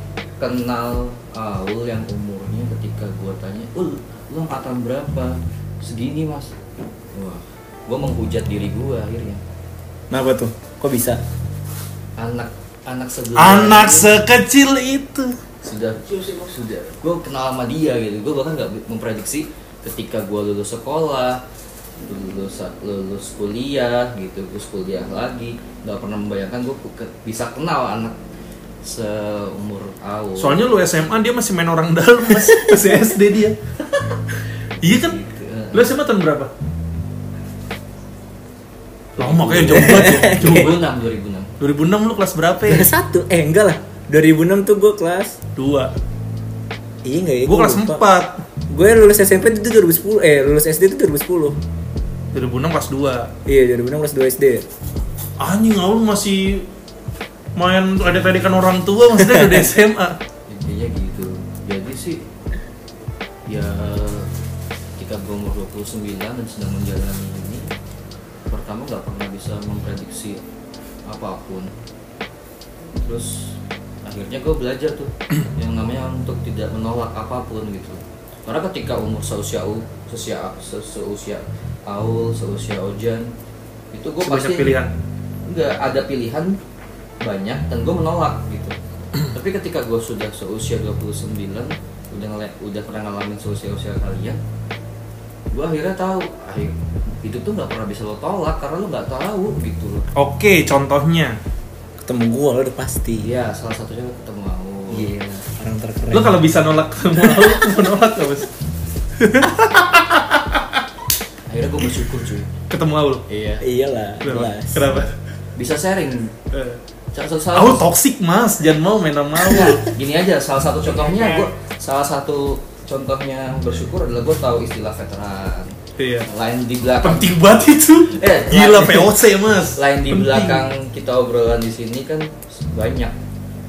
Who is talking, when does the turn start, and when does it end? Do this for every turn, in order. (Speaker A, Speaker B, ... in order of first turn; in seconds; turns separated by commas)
Speaker A: 0.4-6.6, Speaker A: 7.1-9.4, Speaker B: 10.1-11.2, Speaker A: 12.2-14.1, Speaker C: 13.3-15.3, Speaker A: 15.6-21.4, Speaker A: 22.0-28.2, Speaker A: 28.8-30.6, Speaker C: 30.4-35.2, Speaker A: 34.8-35.9, Speaker C: 35.7-36.5, Speaker C: 39.2-40.8, Speaker A: 39.2-41.5, Speaker B: 39.7-40.7, Speaker C: 41.6-42.9, Speaker B: 42.6-45.4, Speaker C: 45.5-45.9, Speaker B: 47.0-48.0, Speaker C: 47.5-48.4, Speaker B: 48.7-51.6, Speaker C: 52.3-53.3, Speaker B: 53.5-54.6, Speaker C: 55.4-56.7, Speaker C: 57.5-60.2, Speaker A: 60.5-62.2, Speaker A: 63.5-64.3, Speaker A: 65.0-67.7, Speaker A: 68.5-70.4, Speaker A: 71.1-71.7, Speaker A: 73.0-83.3, Speaker A: 83.9-84.8, Speaker C: 84.2-84.9, Speaker A: 85.5-86.6, Speaker A: 87.2-94.4, Speaker A: 95.5-100.0, Speaker C: 100.2-101.4, Speaker B: 102.0-103.3, Speaker A: 103.2-105.2, Speaker B: 104.9-106.4, Speaker C: 106.1-108.5, Speaker B: 107.1-107.8, Speaker C: 109.2-110.8, Speaker A: 111.5-112.5, Speaker C: 112.7-113.2, Speaker A: 113.3-113.6, Speaker B: 113.6-114.9, Speaker C: 114.2-115.1, Speaker A: 115.5-116.3, Speaker C: 116.5-116.8, Speaker A: 117.1-117.8, Speaker C: 117.5-119.8, Speaker A: 119.4-125.8, Speaker C: 121.1-121.4, Speaker C: 126.0-126.3, Speaker A: 126.3-127.3, Speaker C: 127.0-130.6, Speaker A: 128.1-129.2, Speaker A: 129.7-133.2